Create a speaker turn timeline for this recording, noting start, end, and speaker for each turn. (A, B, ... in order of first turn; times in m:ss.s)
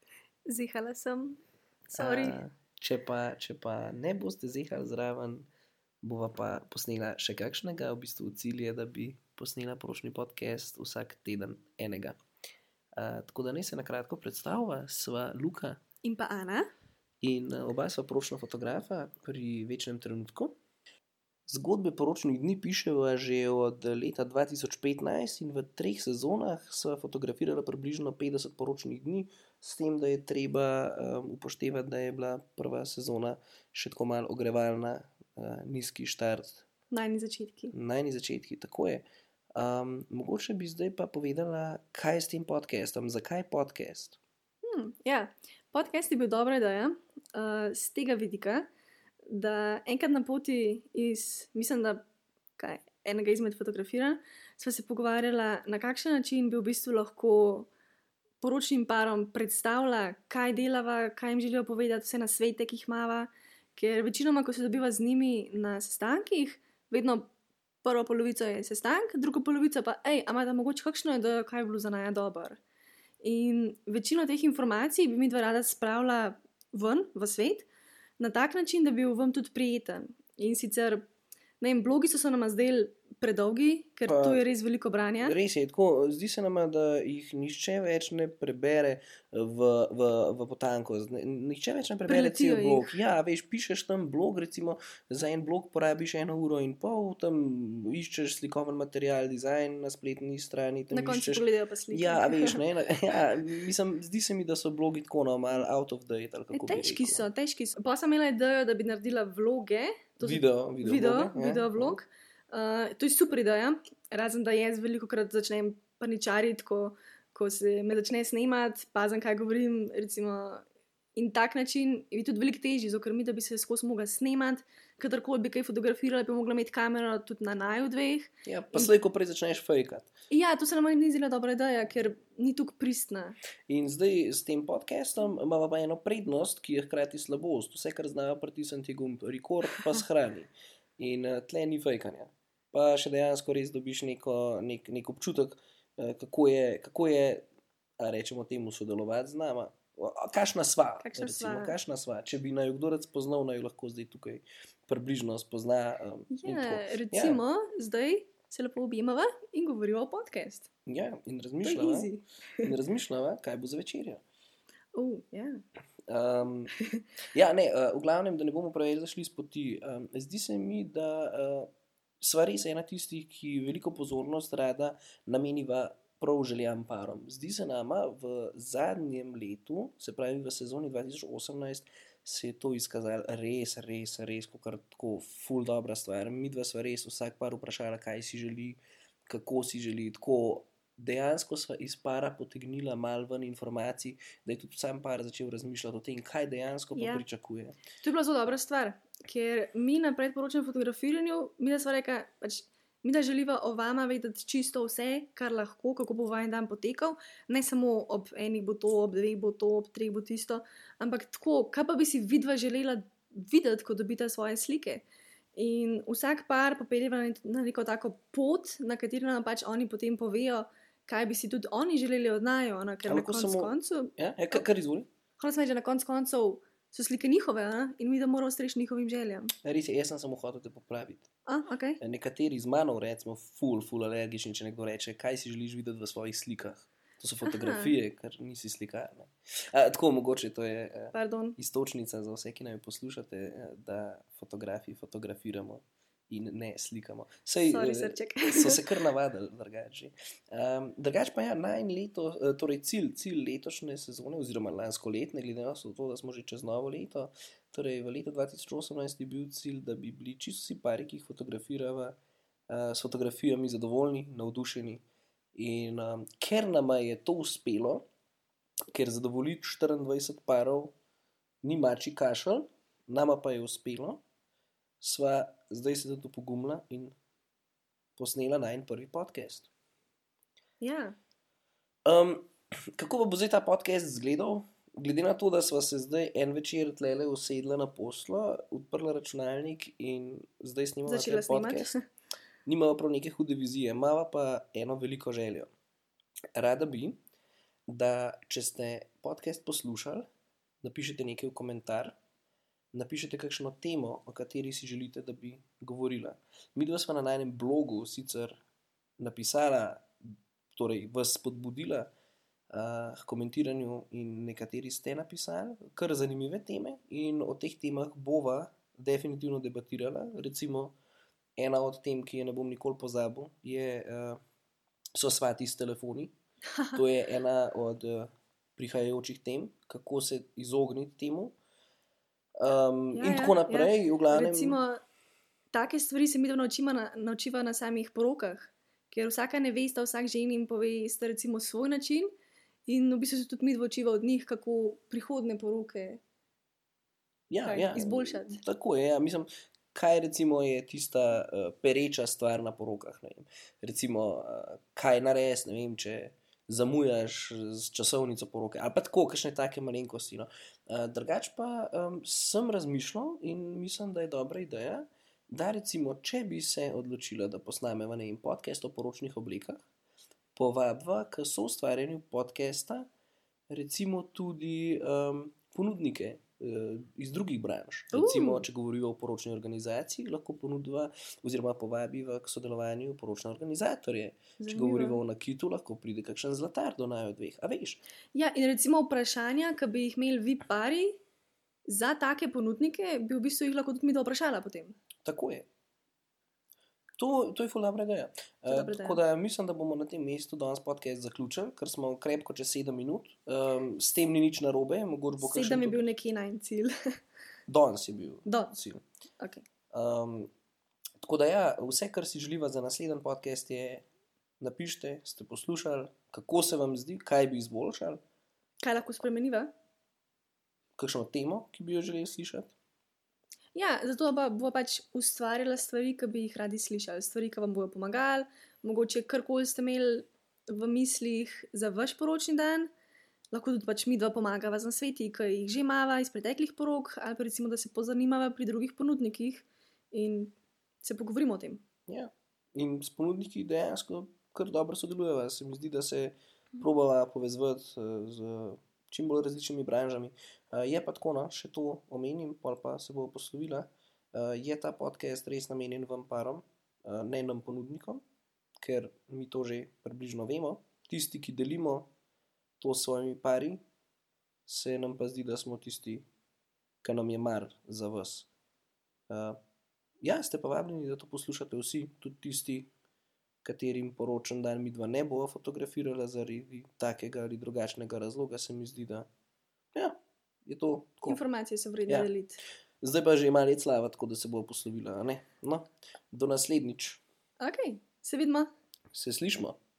0:00.5-0:01.4 A
0:01.9-0:05.5 B
0:01.9-0:02.4 A
0:06.0-0:12.2 B
0:13.0-0:15.8 B
0:16.0-0:16.7 A
0:17.2-0:20.5 B
0:21.5-0:36.6 B
0:36.9-0:37.7 A
0:37.7-0:44.2 B
0:44.6-0:48.7 A
0:49.3-0:52.0 A
0:52.6-0:57.7 A
0:58.4-1:07.3 A
1:07.8-1:12.6 A
1:13.2-1:17.7 A
1:18.2-1:21.0 A
1:21.6-1:25.3 A
1:24.0-1:24.4 B
1:25.2-1:47.2 B
1:32.1-1:33.0 A
1:40.9-1:42.6 A
1:46.5-2:00.6 A
1:50.2-1:52.0 B
2:01.2-2:08.9 A
2:08.4-2:10.1 B
2:10.3-2:13.4 A
2:13.7-2:27.4 B
2:28.0-2:37.4 B
2:31.0-2:31.8 A
2:36.3-2:40.7 A
2:40.8-2:42.1 B
2:41.6-2:42.7 A
2:42.6-2:44.2 B
2:44.9-2:45.6 A
2:46.1-2:46.7 B
2:46.7-2:47.0 A
2:47.3-2:51.7 B
2:52.2-3:17.8 B
3:16.9-3:17.2 A
3:18.0-3:35.0 A
3:35.6-3:44.6 A
3:43.1-3:45.1 B
3:45.4-3:49.5 A
3:49.6-3:51.3 B
3:51.4-3:52.0 A
3:52.0-4:22.2 B
3:57.4-3:57.9 A
4:01.1-4:01.6 A
4:07.6-4:08.8 A
4:22.7-4:25.0 B
4:25.5-4:28.0 B
4:28.9-4:30.9 B
4:31.6-4:34.2 B
4:35.0-4:37.1 B
4:38.2-4:39.7 B
4:40.8-4:41.2 A
4:42.0-4:52.0 B
4:51.0-4:52.0 A
4:52.6-4:55.7 B
4:56.5-4:57.2 B
4:57.9-5:00.2 B
5:00.8-5:02.2 B
5:02.9-5:08.6 B
5:09.2-5:10.1 B
5:10.7-5:12.1 B
5:12.7-5:20.9 B
5:21.6-5:24.4 B
5:25.1-5:26.3 B
5:26.9-5:31.5 B
5:32.6-5:34.8 B
5:33.1-5:35.0 A
5:35.7-5:42.3 A
5:42.9-5:46.2 A
5:47.5-6:09.8 B
5:47.6-5:48.6 A
6:10.5-6:13.1 B
6:13.7-6:28.0 B
6:18.1-6:18.6 A
6:24.6-6:25.2 A
6:28.3-6:31.2 A
6:31.9-6:35.0 A
6:35.2-6:35.7 B
6:37.2-6:46.0 B
6:38.7-6:39.2 A
6:45.4-6:46.9 A
6:47.7-6:49.0 B
6:48.4-6:48.7 A
6:49.4-6:49.6 A
6:49.9-6:50.5 B
6:51.2-6:54.0 B
6:54.6-6:58.2 B
6:58.8-6:59.7 A
7:01.0-7:02.7 B
7:03.7-7:12.9 A
7:13.5-7:21.8 A
7:22.1-7:38.2 B
7:38.8-7:42.1 B
7:42.8-7:43.8 B
7:44.7-7:46.2 B
7:47.0-7:48.5 B
7:49.3-7:49.6 B
7:50.2-7:52.9 B
7:53.6-7:59.3 B
7:59.9-8:01.4 B
8:01.2-8:02.6 A
8:03.0-8:07.2 B
8:07.6-8:08.7 A
8:09.1-8:09.8 B